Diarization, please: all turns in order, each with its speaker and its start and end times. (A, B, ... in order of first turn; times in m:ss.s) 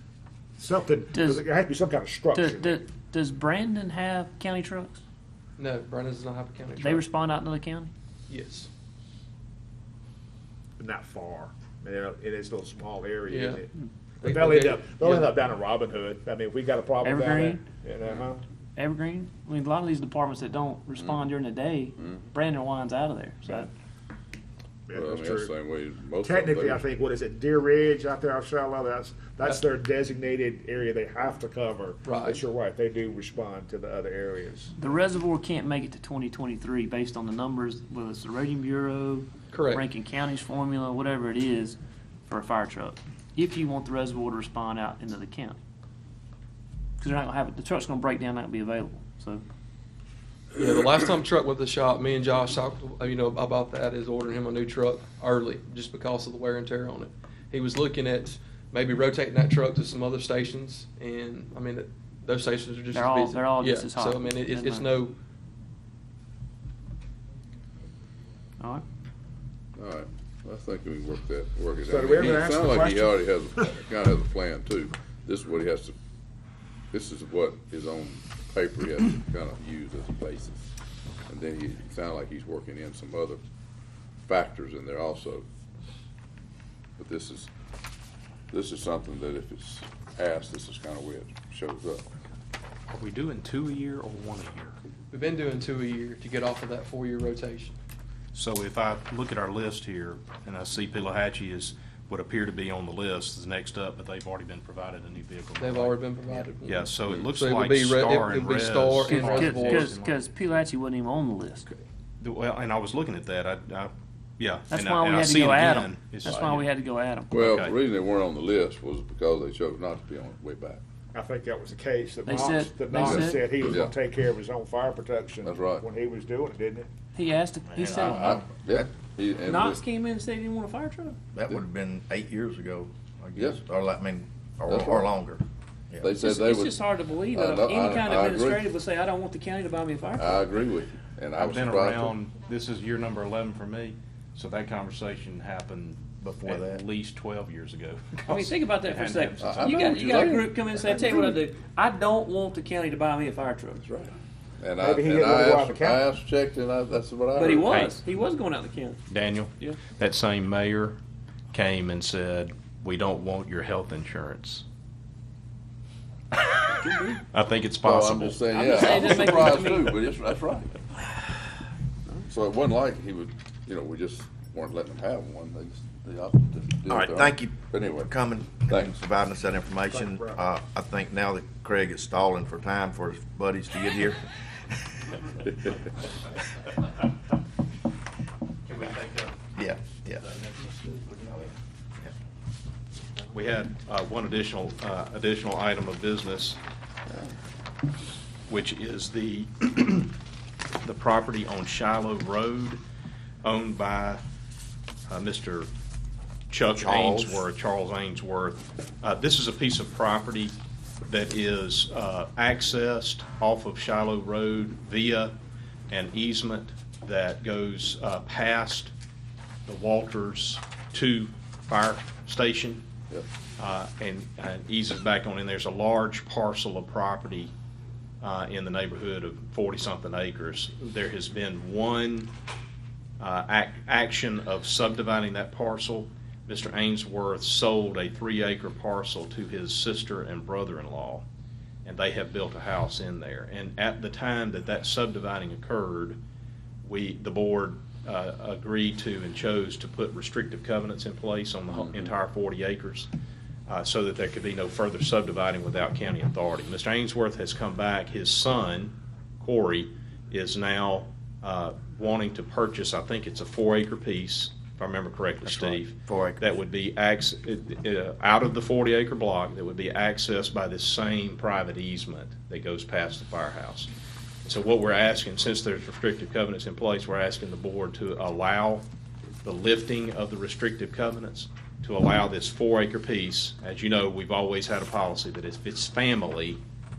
0:00.6-0:02.8 A
0:01.1-0:01.4 B
0:02.3-0:05.0 B
0:05.6-0:07.0 C
0:06.8-0:07.9 B
0:08.3-0:08.7 C
0:10.8-0:18.4 A
0:13.3-0:13.6 C
0:14.2-0:15.2 C
0:17.0-0:17.6 B
0:18.8-0:23.7 B
0:21.0-0:21.3 D
0:22.0-0:22.3 D
0:24.9-0:25.5 A
0:24.9-0:26.8 D
0:26.2-0:34.7 A
0:32.0-0:32.4 C
0:34.8-0:45.6 B
0:39.5-0:39.9 C
0:47.0-0:49.4 B
0:50.6-1:05.1 C
1:02.9-1:04.9 B
1:09.8-1:16.0 D
1:11.8-1:13.2 A
1:16.9-1:20.7 D
1:21.3-1:23.4 D
1:24.3-1:25.4 D
1:27.0-1:27.5 D
1:28.5-1:32.1 D
1:32.9-1:34.8 E
1:35.1-1:37.8 C
1:38.3-1:46.0 E
1:45.6-1:49.9 C
1:46.5-1:50.2 E
1:49.1-1:51.7 B
1:52.2-1:56.6 E
1:54.7-1:57.4 B
1:57.3-2:00.8 D
1:57.4-1:57.8 E
2:01.1-2:06.9 A
2:02.2-2:03.5 B
2:02.9-2:03.9 D
2:05.4-2:05.8 D
2:07.2-2:08.5 B
2:07.7-2:08.9 F
2:07.9-2:09.8 D
2:09.4-2:11.2 B
2:11.3-2:16.1 F
2:14.7-2:15.1 D
2:16.0-2:18.6 D
2:16.1-2:20.5 B
2:20.2-2:22.2 D
2:21.4-2:30.2 E
2:26.2-2:26.8 F
2:28.2-2:33.8 B
2:29.4-2:30.6 D
2:33.8-2:37.8 D
2:34.8-2:36.0 A
2:37.3-2:39.0 B
2:37.7-2:38.0 E
2:39.1-2:41.0 E
2:41.5-2:44.6 E
2:46.7-2:47.2 B
2:47.3-2:48.5 E
2:47.8-2:50.8 D
2:48.5-2:50.1 B
2:52.3-2:58.1 D
2:56.9-3:04.3 F
2:58.7-2:59.0 D
3:00.1-3:00.4 A
3:08.8-3:09.3 E
3:09.6-3:10.2 F
3:11.2-3:11.5 F
3:13.3-3:16.6 E
3:18.5-3:20.2 E
3:20.8-3:22.8 E
3:23.4-3:24.2 E
3:25.1-3:25.7 E
3:26.5-3:35.3 E
3:26.7-3:27.4 F
3:35.9-3:38.9 E
3:39.7-3:42.8 E
3:43.6-3:47.5 E
3:48.2-3:52.3 E
3:53.2-4:01.2 E
4:01.8-4:06.2 E
4:06.8-4:13.1 E
4:11.7-4:12.0 D
4:13.7-4:33.9 E
4:25.4-4:26.4 F
4:34.4-4:38.9 E
4:39.4-4:46.6 E